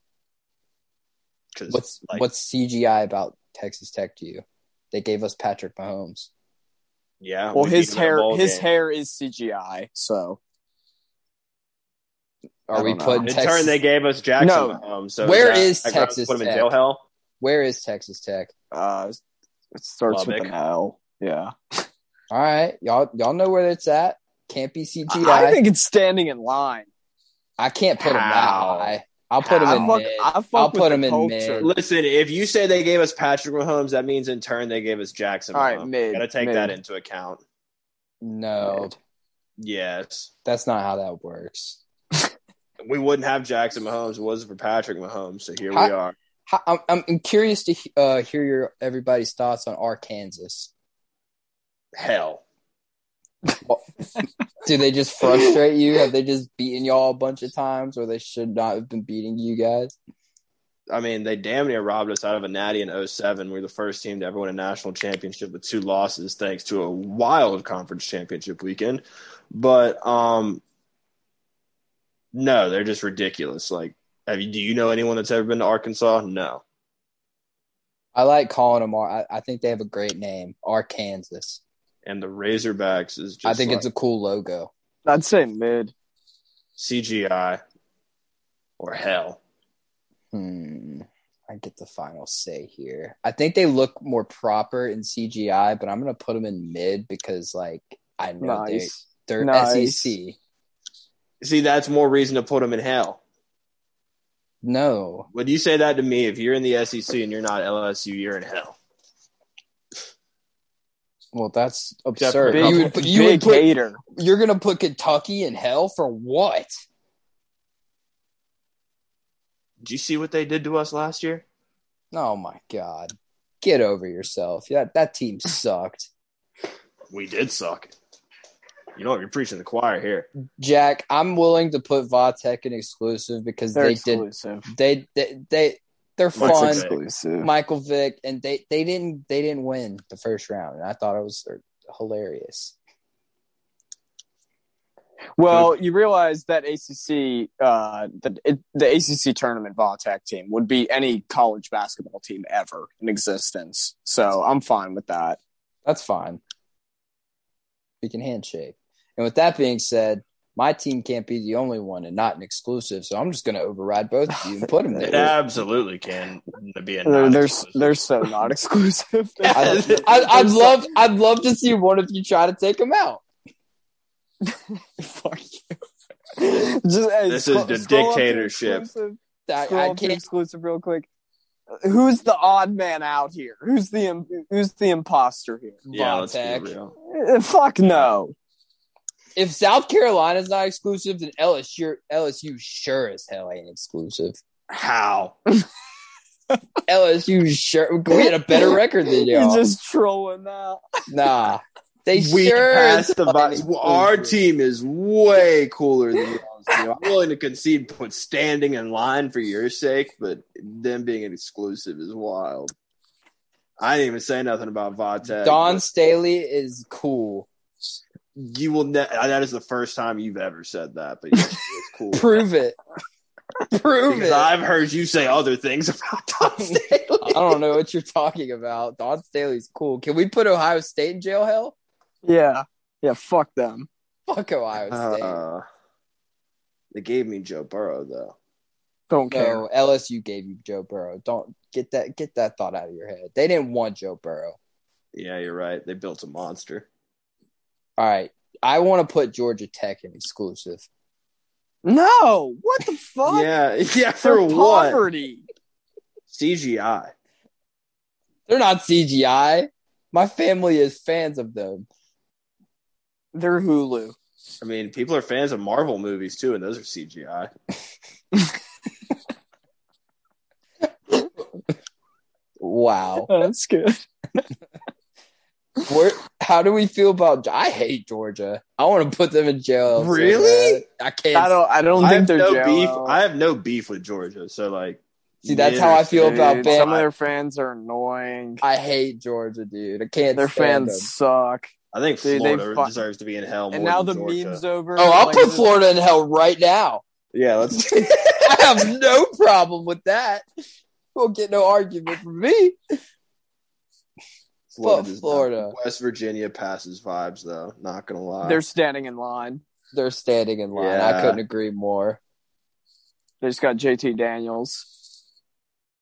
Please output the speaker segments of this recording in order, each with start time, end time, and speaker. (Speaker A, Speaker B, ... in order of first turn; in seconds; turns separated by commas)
Speaker A: 1.5-2.2, Speaker B: 1.7-6.3, Speaker A: 7.2-8.7, Speaker C: 7.5-10.4, Speaker B: 12.7-13.7, Speaker C: 12.7-13.3, Speaker A: 13.2-17.0, Speaker C: 14.4-14.8, Speaker B: 15.2-16.7, Speaker B: 17.4-18.5, Speaker C: 18.7-19.2, Speaker C: 19.7-21.9, Speaker A: 20.1-20.5, Speaker B: 22.3-25.6, Speaker C: 25.1-26.9, Speaker B: 27.6-31.7, Speaker A: 28.0-28.9, Speaker C: 29.4-31.7, Speaker A: 29.6-29.9, Speaker A: 31.6-37.4, Speaker C: 35.5-36.8, Speaker B: 38.2-38.9, Speaker A: 39.6-40.3, Speaker B: 40.4-41.8, Speaker A: 42.8-46.1, Speaker B: 46.5-50.7, Speaker A: 51.9-52.4, Speaker B: 54.6-59.9, Speaker A: 60.9-70.6, Speaker A: 72.3-76.6, Speaker B: 78.1-81.6, Speaker A: 82.0-83.8, Speaker B: 83.4-84.7, Speaker C: 85.0-85.9, Speaker A: 86.8-87.6, Speaker A: 88.8-89.4, Speaker B: 90.3-100.4, Speaker C: 98.4-100.2, Speaker A: 101.4-103.2, Speaker B: 104.6-105.3, Speaker A: 105.3-108.8, Speaker B: 111.3-116.7, Speaker A: 112.2-112.9, Speaker C: 112.5-114.0, Speaker A: 119.8-121.4, Speaker B: 122.1-126.1, Speaker A: 127.1-127.9, Speaker A: 128.9-130.3, Speaker B: 130.6-136.8, Speaker C: 133.7-134.7, Speaker A: 136.3-137.0, Speaker C: 136.4-137.5, Speaker B: 137.4-142.7, Speaker C: 145.4-155.4, Speaker A: 145.5-145.7, Speaker B: 155.8-156.4, Speaker B: 158.0-165.3, Speaker A: 164.9-168.0, Speaker C: 167.0-170.9, Speaker A: 169.4-170.3, Speaker B: 169.5-173.2, Speaker C: 174.4-175.8, Speaker C: 176.3-181.1, Speaker A: 177.3-178.9, Speaker B: 179.4-180.2, Speaker C: 181.7-185.8, Speaker B: 185.9-186.7, Speaker A: 185.9-186.9, Speaker C: 187.0-188.3, Speaker B: 189.3-194.4, Speaker A: 194.7-195.3, Speaker B: 196.9-199.6, Speaker C: 198.1-200.8, Speaker B: 201.1-204.3, Speaker A: 202.1-212.7, Speaker A: 213.8-215.8, Speaker B: 215.3-217.5, Speaker A: 218.3-222.4, Speaker B: 222.1-222.8, Speaker B: 223.7-224.5, Speaker A: 224.1-227.5, Speaker B: 226.5-231.7, Speaker C: 232.2-233.9, Speaker B: 234.3-235.4, Speaker A: 234.9-235.6, Speaker A: 236.9-238.3, Speaker C: 239.1-239.6, Speaker B: 239.3-244.6, Speaker A: 245.1-246.9, Speaker B: 248.0-250.8, Speaker C: 251.8-253.5, Speaker A: 253.2-255.0, Speaker C: 254.2-255.4, Speaker A: 256.3-257.1, Speaker B: 258.5-261.9, Speaker C: 263.3-264.2, Speaker A: 264.6-267.5, Speaker B: 272.6-273.4, Speaker C: 273.3-274.0, Speaker B: 275.9-281.6, Speaker A: 279.9-280.8, Speaker C: 281.3-283.2, Speaker A: 282.0-287.1, Speaker B: 285.4-286.9, Speaker C: 286.2-288.6, Speaker B: 288.6-291.1, Speaker C: 290.3-291.7, Speaker A: 291.9-294.6, Speaker C: 292.2-292.9, Speaker C: 293.7-295.7, Speaker B: 295.0-297.0, Speaker A: 297.3-298.6, Speaker B: 297.9-300.4, Speaker B: 301.1-302.8, Speaker A: 304.7-308.6, Speaker B: 304.8-305.7, Speaker C: 308.4-309.6, Speaker B: 309.9-312.2, Speaker A: 310.7-311.4, Speaker C: 313.4-314.9